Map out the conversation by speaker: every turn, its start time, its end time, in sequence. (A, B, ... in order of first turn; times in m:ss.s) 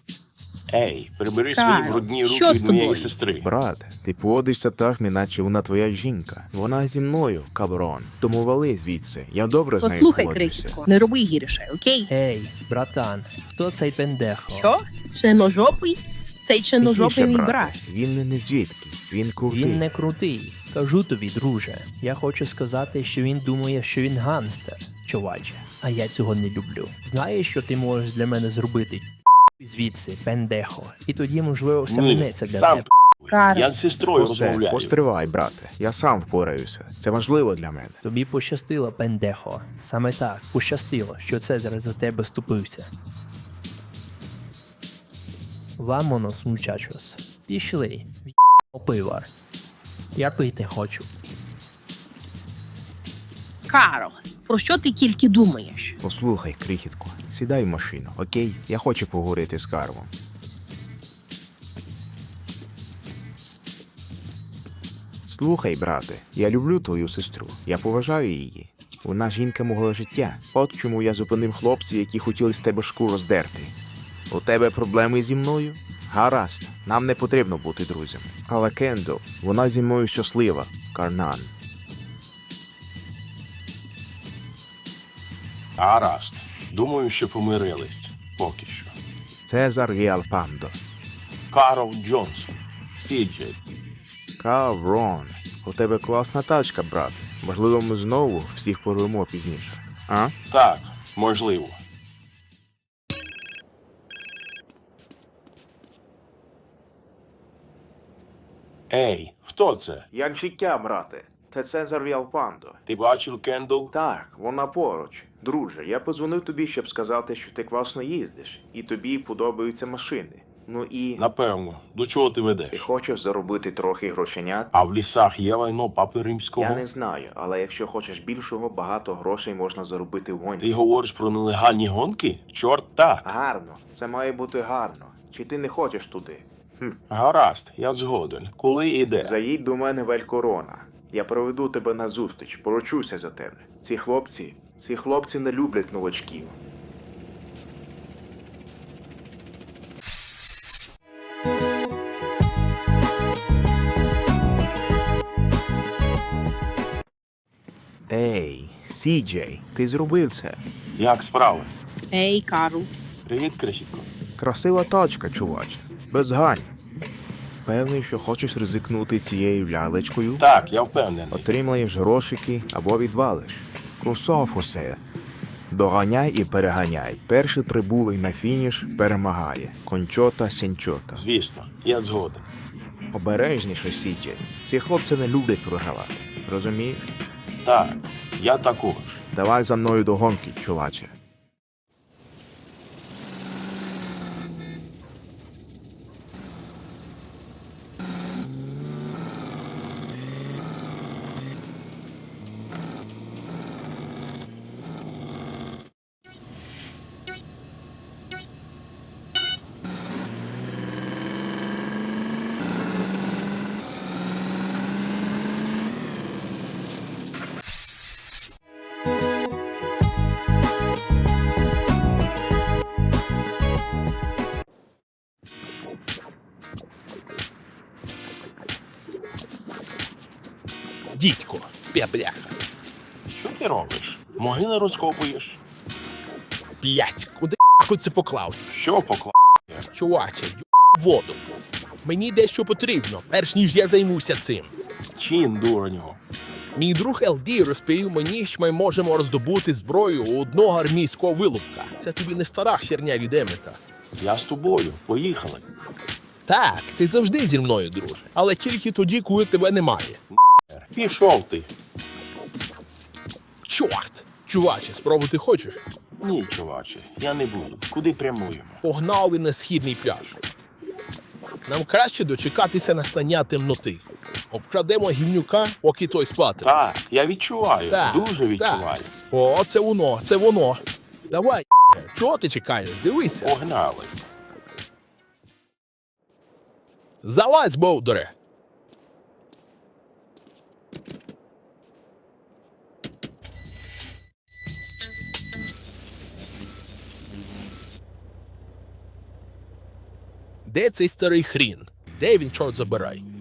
0:00.7-0:03.5 A
0:01.5-0:03.2 B
0:03.4-0:10.8 C
0:09.8-0:12.1 B
0:12.1-0:14.7 D
0:14.5-0:17.7 B
0:16.8-0:19.8 C
0:19.5-0:32.9 D
0:31.8-0:35.0 A
0:33.3-0:33.8 B
0:34.1-0:38.0 C
0:38.0-0:42.9 D
0:45.8-0:49.3 D
0:50.2-0:51.1 D
0:53.7-0:56.0 B
0:56.0-1:00.1 C
1:05.2-1:13.7 C
1:14.3-1:21.5 C
1:25.8-1:28.9 A
1:29.4-1:30.8 C
1:31.5-1:33.6 A
1:34.4-1:40.3 C
1:40.5-1:41.8 A
1:48.9-1:50.0 A
1:50.1-1:52.8 C
1:52.8-1:53.9 A
1:53.9-2:01.2 C
2:01.2-2:02.8 A
2:02.7-2:04.7 C
2:04.7-2:06.8 A
2:06.6-2:10.8 C
2:10.6-2:13.3 A
2:13.2-2:17.0 C
2:17.1-2:19.3 A
2:19.2-2:26.6 C
2:38.1-2:40.6 C
2:41.0-2:41.7 A
2:42.1-2:42.9 B
2:43.2-2:44.1 A
2:44.4-2:46.7 C
2:47.6-2:50.5 C
2:50.4-2:51.4 A
2:51.3-2:55.0 C
2:55.7-3:01.2 C
3:01.1-3:02.5 A
3:03.1-3:07.1 C
3:07.6-3:09.2 A
3:09.3-3:11.1 C
3:51.1-3:52.5 E
3:53.3-3:55.6 A
3:56.8-3:58.6 E
3:58.7-3:59.9 A
3:59.9-4:01.4 E
4:02.0-4:04.7 E
4:05.2-4:06.2 A
4:06.8-4:13.8 E
4:14.2-4:15.6 A
4:16.5-4:20.2 E
4:20.7-4:21.7 A
4:23.6-4:25.8 E
4:26.2-4:28.8 A
4:28.8-4:30.4 E
4:31.7-4:36.7 E
4:36.6-4:39.1 A
4:37.9-4:43.5 E
4:43.4-4:44.1 A
4:47.2-4:48.3 E
5:00.7-5:03.2 E